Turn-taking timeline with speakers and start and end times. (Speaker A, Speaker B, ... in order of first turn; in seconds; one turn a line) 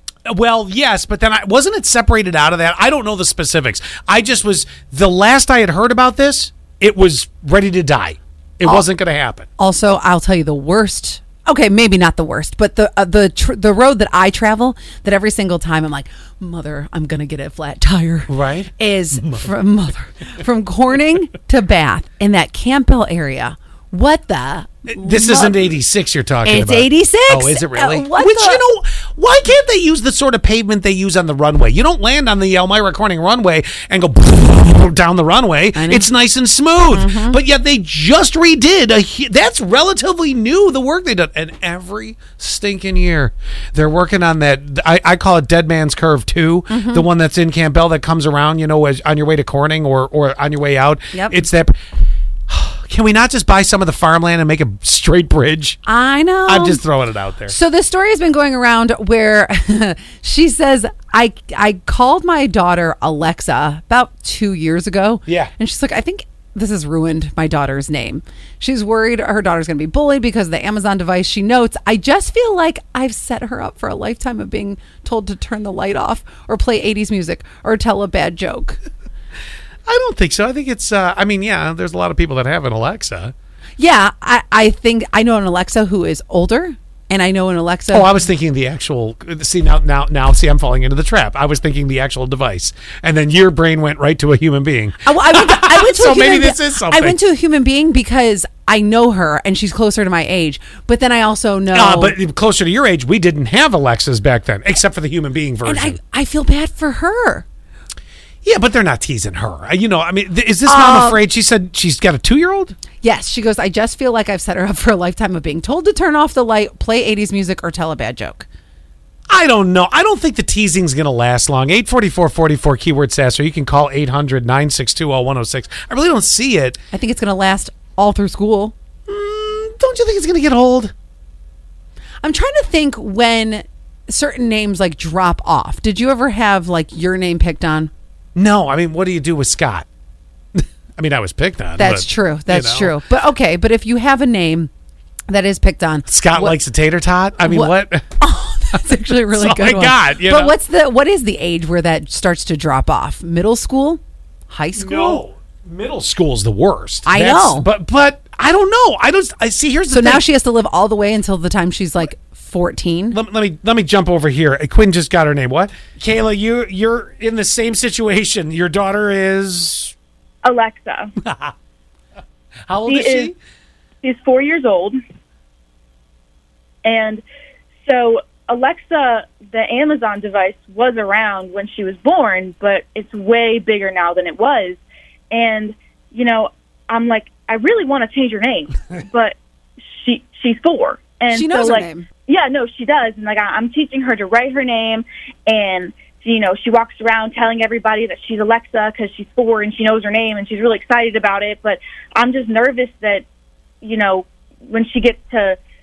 Speaker A: 0.3-9.5
Speaker B: 9.6-25.8
Speaker A: 18.3-19.5
Speaker A: 24.9-51.8
Speaker B: 26.4-28.6
Speaker B: 35.7-36.1
Speaker B: 36.9-37.4
Speaker B: 46.7-47.1
Speaker B: 51.1-51.4
Speaker A: 52.5-55.8
Speaker B: 55.9-56.8
Speaker A: 56.5-57.5
Speaker B: 57.5-78.8
Speaker A: 65.3-65.5
Speaker A: 79.9-83.3
Speaker B: 83.8-88.1
Speaker A: 87.9-97.2
Speaker B: 95.0-102.2
Speaker A: 101.7-106.0
Speaker B: 105.7-107.5
Speaker A: 108.4-112.8
Speaker B: 110.7-111.2
Speaker B: 113.0-118.5
Speaker A: 119.3-126.8
Speaker B: 126.9-128.8
Speaker A: 129.1-130.9
Speaker B: 132.2-137.9
Speaker A: 138.3-139.9
Speaker A: 140.6-142.9
Speaker B: 141.8-144.7
Speaker B: 145.3-146.6
Speaker A: 146.1-148.2
Speaker B: 147.4-155.2
Speaker A: 148.7-150.6
Speaker A: 154.8-160.2
Speaker B: 157.1-157.7
Speaker B: 159.9-163.2
Speaker A: 163.1-169.9
Speaker C: 170.4-171.1
Speaker A: 171.2-171.6
Speaker A: 172.7-173.4
Speaker C: 172.9-173.3
Speaker C: 174.0-175.0
Speaker C: 176.8-177.2
Speaker C: 177.8-184.8
Speaker C: 185.3-203.2
Speaker B: 191.3-192.1
Speaker C: 203.8-205.6